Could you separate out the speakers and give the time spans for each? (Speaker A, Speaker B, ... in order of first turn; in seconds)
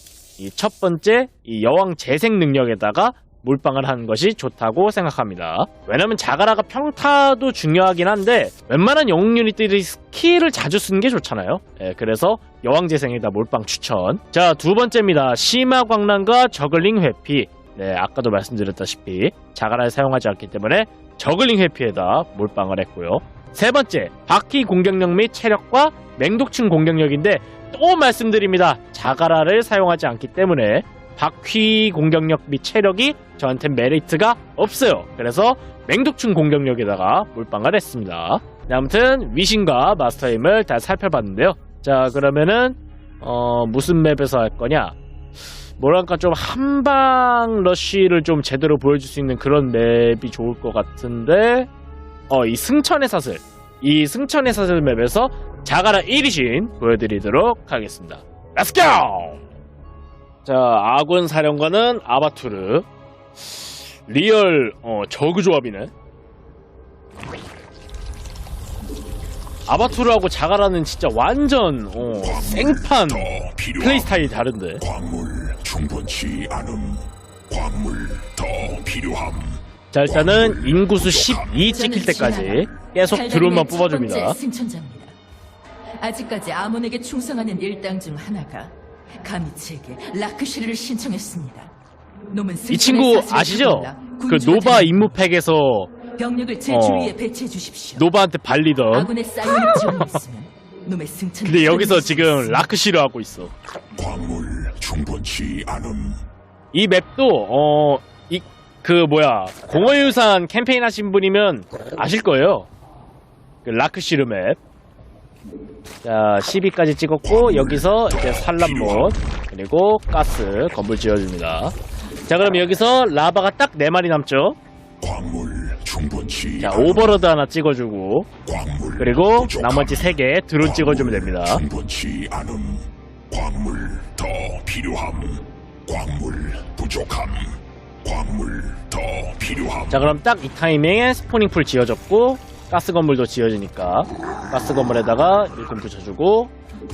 Speaker A: 0.4-45.0, 45.8-51.7, 52.3-59.4, 60.4-62.9, 64.1-65.9, 69.7-74.8, 79.9-84.4, 92.7-96.0, 96.7-97.2, 98.0-100.2, 101.4-103.5, 106.7-112.7, 113.6-114.6, 116.0-121.7, 122.3-124.6, 126.6-128.3, 129.0-131.6, 139.9-146.5
Speaker B: 72.2-74.3, 74.8-81.6, 103.9-106.2, 117.3-119.1, 125.0-127.2, 128.4-140.1
Speaker C: 81.5-85.1, 86.0-91.7, 92.3-95.1, 96.1-98.0, 98.9-102.7